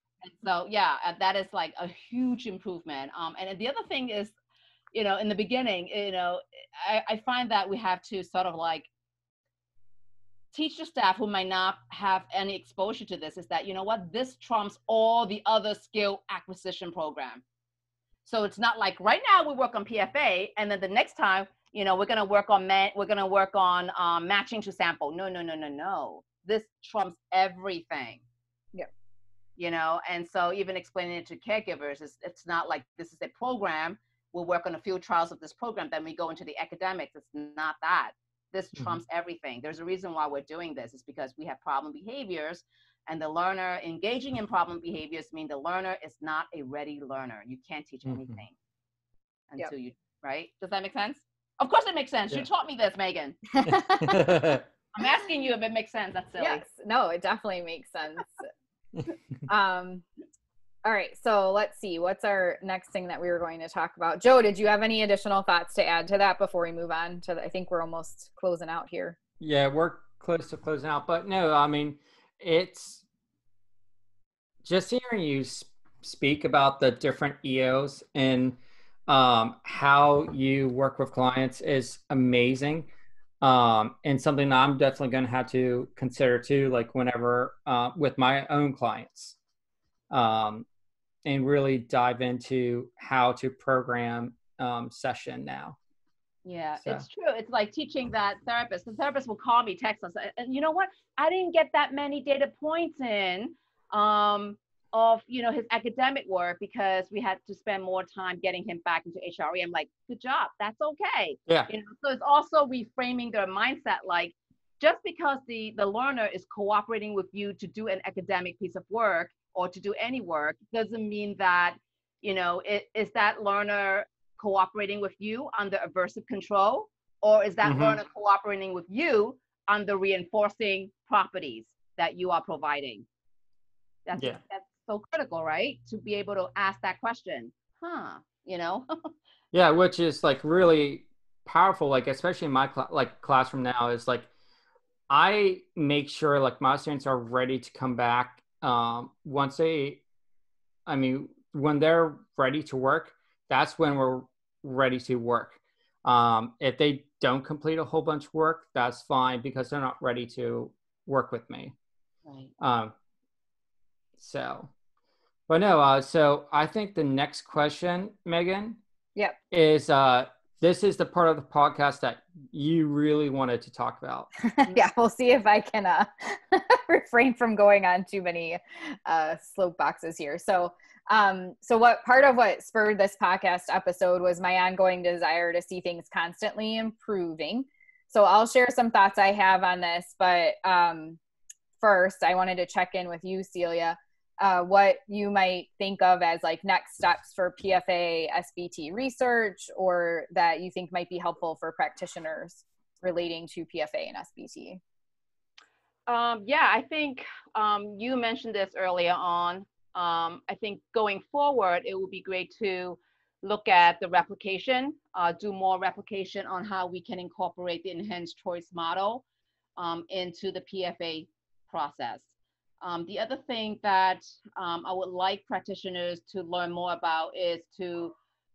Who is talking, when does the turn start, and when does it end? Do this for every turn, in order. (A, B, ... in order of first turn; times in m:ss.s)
0:00.2-0:04.3 A
0:04.9-0:08.9 A
0:10.5-0:17.4 A
0:18.2-0:28.2 A
0:29.6-0:48.5 A
0:48.1-0:48.4 B
0:49.5-0:53.5 A
0:53.6-0:54.2 C
0:53.6-0:54.6 B
0:54.9-0:56.6 A
0:56.4-0:58.4 C
0:59.5-1:00.0 C
1:00.8-1:09.2 C
1:09.4-1:13.0 B
1:14.6-1:22.9 B
1:23.4-1:29.4 B
1:30.1-1:30.6 B
1:31.2-1:35.8 B
1:36.4-2:13.0 A
2:07.6-2:08.0 B
2:14.0-2:19.1 A
2:19.5-2:24.3 B
2:25.1-2:30.0 B
2:30.9-2:41.7 B
2:42.2-2:42.5 A
2:42.6-2:42.9 B
2:44.2-2:44.7 B
2:45.5-2:48.8 B
2:49.5-2:54.3 B
2:54.6-3:11.2 C
3:11.8-3:24.8 C
3:26.1-3:39.2 A
3:39.8-3:42.3 A
3:42.8-3:48.2 A